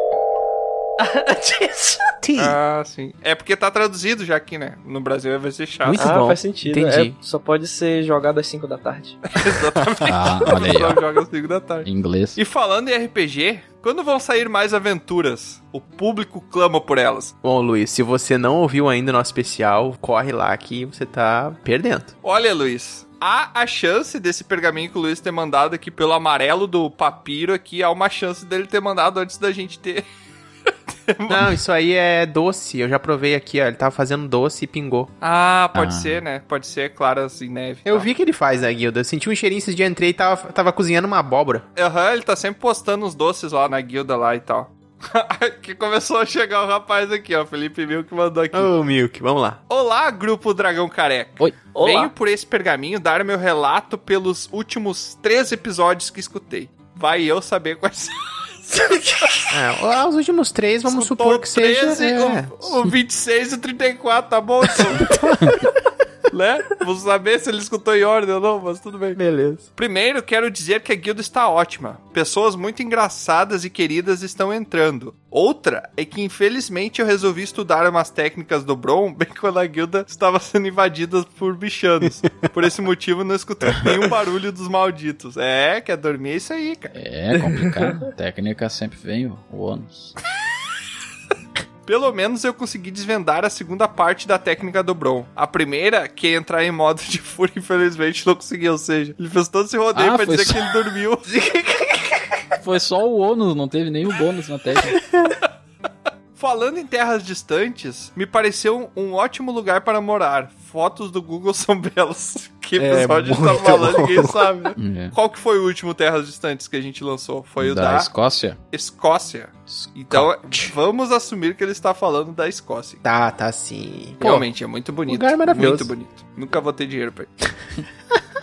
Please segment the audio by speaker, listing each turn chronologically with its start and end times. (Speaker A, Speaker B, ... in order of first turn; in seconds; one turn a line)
Speaker A: 1.0-2.0
Speaker B: 2.2-2.6
Speaker C: 2.4-6.0
Speaker B: 5.8-7.2
Speaker A: 6.0-9.2
Speaker C: 9.3-17.3
Speaker D: 10.1-11.0
Speaker D: 11.8-12.4
Speaker B: 17.4-22.1
Speaker C: 22.2-30.0
Speaker C: 31.1-31.4
Speaker B: 31.3-35.1
Speaker C: 35.2-38.1
Speaker D: 35.7-36.2
Speaker B: 37.8-41.6
Speaker C: 41.8-48.7
Speaker B: 48.5-49.6
Speaker C: 49.7-59.4
Speaker A: 51.7-52.1
Speaker B: 59.5-62.8
Speaker C: 60.9-65.1
Speaker B: 64.9-65.5
Speaker C: 66.3-69.2
Speaker B: 69.2-69.7
Speaker C: 69.8-86.9
Speaker D: 86.9-90.1
Speaker C: 91.8-101.3
Speaker D: 99.9-100.7
Speaker A: 101.3-102.1
Speaker D: 102.6-105.0
Speaker C: 106.3-118.1
Speaker B: 112.8-114.4
Speaker D: 114.8-115.1
Speaker D: 117.6-118.6
Speaker C: 118.7-123.0
Speaker D: 119.7-120.3
Speaker B: 123.0-124.4
Speaker C: 124.2-127.3
Speaker B: 125.1-125.9